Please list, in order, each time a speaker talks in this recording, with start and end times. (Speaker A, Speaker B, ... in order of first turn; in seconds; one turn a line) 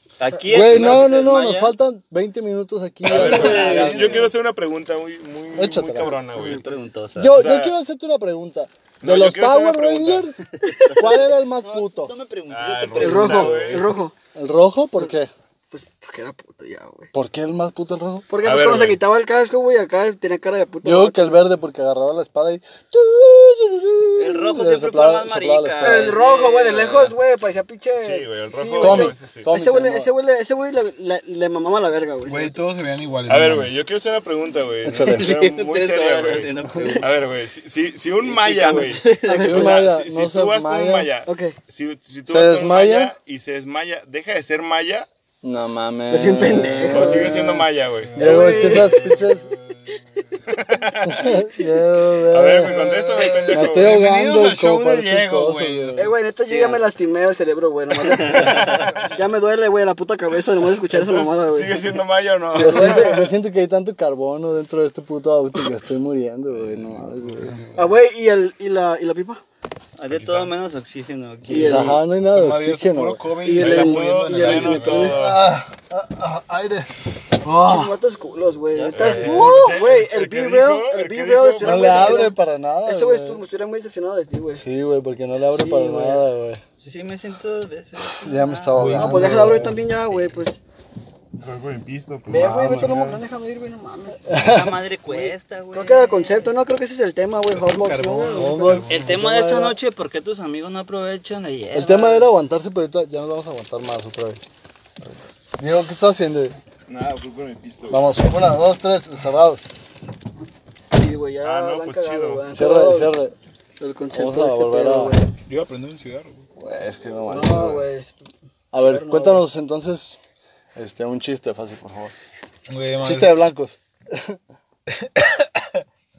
Speaker A: 0.2-1.7
Speaker B: 0.2-1.0
Speaker C: 0.5-4.3
Speaker D: 3.1-6.7
Speaker E: 3.1-4.3
Speaker A: 3.1-4.2
Speaker C: 5.5-6.2
Speaker A: 6.3-7.4
Speaker C: 7.2-12.1
Speaker D: 7.3-7.7
Speaker D: 9.0-10.3
Speaker B: 10.6-11.1
Speaker A: 11.6-13.9
Speaker D: 12.5-13.8
Speaker B: 12.9-14.1
Speaker C: 14.3-15.3
Speaker B: 15.7-17.1
Speaker C: 17.1-18.3
Speaker B: 18.3-21.4
Speaker D: 18.4-19.0
Speaker C: 20.8-26.1
Speaker A: 24.1-27.1
Speaker B: 25.8-32.6
Speaker D: 28.0-29.5
Speaker C: 28.8-30.1
Speaker E: 32.3-33.8
Speaker D: 33.3-45.1
Speaker C: 34.8-35.3
Speaker A: 35.0-37.1
Speaker A: 38.2-39.7
Speaker B: 39.0-39.8
Speaker C: 39.3-41.1
Speaker B: 41.2-41.5
Speaker C: 42.2-43.1
Speaker C: 45.4-49.5
Speaker B: 46.1-47.3
Speaker D: 46.8-48.2
Speaker E: 48.0-50.5
Speaker B: 48.1-49.1
Speaker D: 50.5-51.1
Speaker C: 51.0-52.8
Speaker B: 51.2-51.8
Speaker D: 52.3-54.0
Speaker E: 52.5-56.1
Speaker C: 53.5-56.1
Speaker B: 56.0-58.6
Speaker A: 56.4-56.8
Speaker A: 58.2-58.7
Speaker D: 58.2-59.1
Speaker B: 59.1-61.9
Speaker D: 60.9-63.3
Speaker B: 62.5-63.2
Speaker C: 62.6-67.6
Speaker E: 66.6-68.0
Speaker B: 67.8-69.4
Speaker A: 70.0-72.0
Speaker D: 70.1-70.5
Speaker B: 71.5-72.0
Speaker C: 71.5-73.2
Speaker E: 72.2-75.2
Speaker B: 73.4-75.2
Speaker D: 73.6-75.5
Speaker C: 75.1-77.9
Speaker B: 77.6-84.6
Speaker A: 78.7-79.7
Speaker D: 78.9-82.3
Speaker C: 79.3-79.6
Speaker C: 81.6-83.4
Speaker C: 84.5-86.6
Speaker A: 85.5-86.2
Speaker A: 86.8-90.4
Speaker C: 88.1-89.8
Speaker E: 88.7-89.6
Speaker B: 89.0-90.6
Speaker D: 91.4-93.2
Speaker B: 92.3-94.5
Speaker C: 92.3-93.1
Speaker C: 94.3-94.8
Speaker A: 94.3-96.5
Speaker B: 95.1-98.9
Speaker E: 97.5-99.2
Speaker C: 98.3-99.8
Speaker A: 98.9-102.3
Speaker C: 101.7-104.4
Speaker C: 105.0-106.6
Speaker D: 106.9-108.1
Speaker C: 107.9-109.6
Speaker B: 110.9-113.2
Speaker D: 111.4-112.5
Speaker C: 112.5-113.3
Speaker B: 113.8-115.3
Speaker C: 114.1-115.1
Speaker E: 115.5-116.5
Speaker C: 116.6-117.8
Speaker B: 117.3-118.2
Speaker C: 118.7-120.2
Speaker B: 118.7-119.5
Speaker C: 120.7-122.1
Speaker E: 122.7-123.3
Speaker C: 123.0-124.4
Speaker E: 124.9-125.8